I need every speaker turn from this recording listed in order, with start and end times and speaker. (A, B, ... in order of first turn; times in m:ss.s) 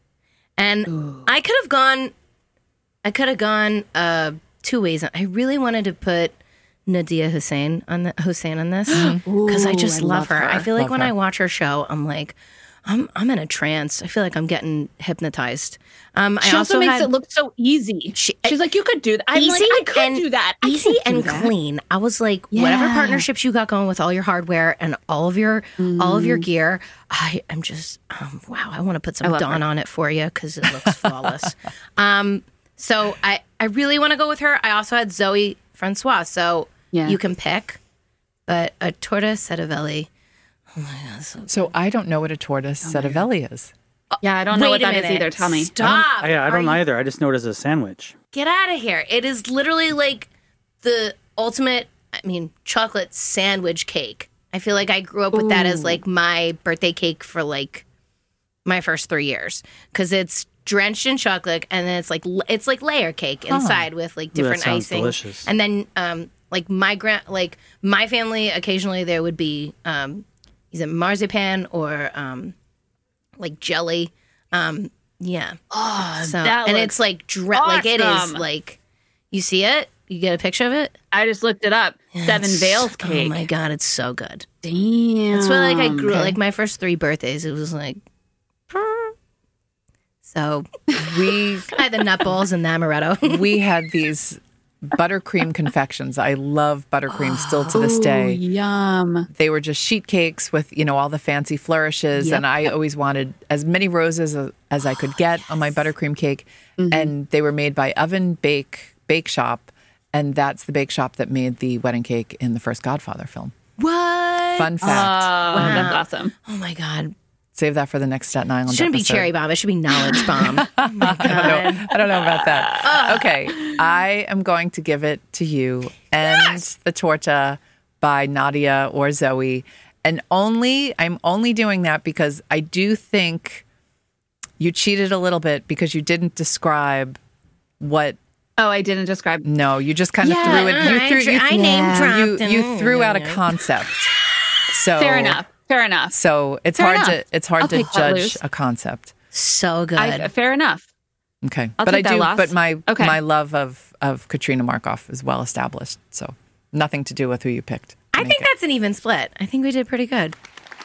0:00.6-0:02.1 A
0:00.9-0:01.3 B
0:03.0-0:17.1 A
0:08.9-0:10.7 B
0:08.9-0:09.2 C
0:10.8-0:11.1 C
0:16.4-0:21.5 B
0:18.1-0:18.6 A
0:19.3-0:37.8 A
0:22.5-0:23.2 B
0:25.8-0:26.4 B
0:29.2-0:29.6 B
0:36.9-0:37.2 B
0:38.5-0:40.1 A
0:40.7-0:41.7 A
0:41.5-0:43.7 C
0:42.8-0:43.2 B
0:44.1-0:46.8 A
0:44.2-0:45.7 B
0:46.2-0:48.1 D
0:48.3-0:50.3 A
0:50.8-0:57.8 A
0:55.3-0:56.0 B
0:58.6-1:12.5 A
1:03.5-1:03.9 C
1:04.3-1:05.5 D
1:13.4-1:15.6 A
1:15.7-1:17.0 B
1:16.2-1:18.8 A
1:17.5-1:18.4 B
1:19.3-1:20.9 A
1:21.1-1:23.4 B
1:22.1-1:24.5 A
1:24.6-1:26.4 B
1:25.3-1:28.0 A
1:28.7-1:29.1 A
1:30.2-1:30.7 A
1:31.0-1:31.7 C
1:31.7-1:33.5 A
1:33.2-1:38.4 C
1:37.1-1:37.8 A
1:37.7-1:39.3 B
1:39.3-1:53.5 C
1:42.2-1:42.4 A
1:46.8-1:47.1 B
1:53.8-1:55.0 A
1:54.6-1:55.9 C
1:54.8-1:56.3 B
1:55.5-1:57.1 A
1:57.5-1:59.3 C
1:58.7-2:01.9 A
2:00.5-2:13.6 C
2:02.1-2:03.0 B
2:02.8-2:03.3 A
2:14.6-2:17.2 C
2:17.8-2:18.2 C
2:18.6-2:19.4 B
2:19.4-2:24.1 C
2:20.2-2:22.1 B
2:20.4-2:23.4 A
2:24.7-2:25.4 C
2:25.0-2:26.1 B
2:26.1-2:29.1 C
2:26.8-2:28.4 B
2:29.3-2:30.3 A
2:30.0-2:30.8 B
2:31.4-2:38.5 C
2:31.8-2:33.2 B
2:38.1-2:40.4 A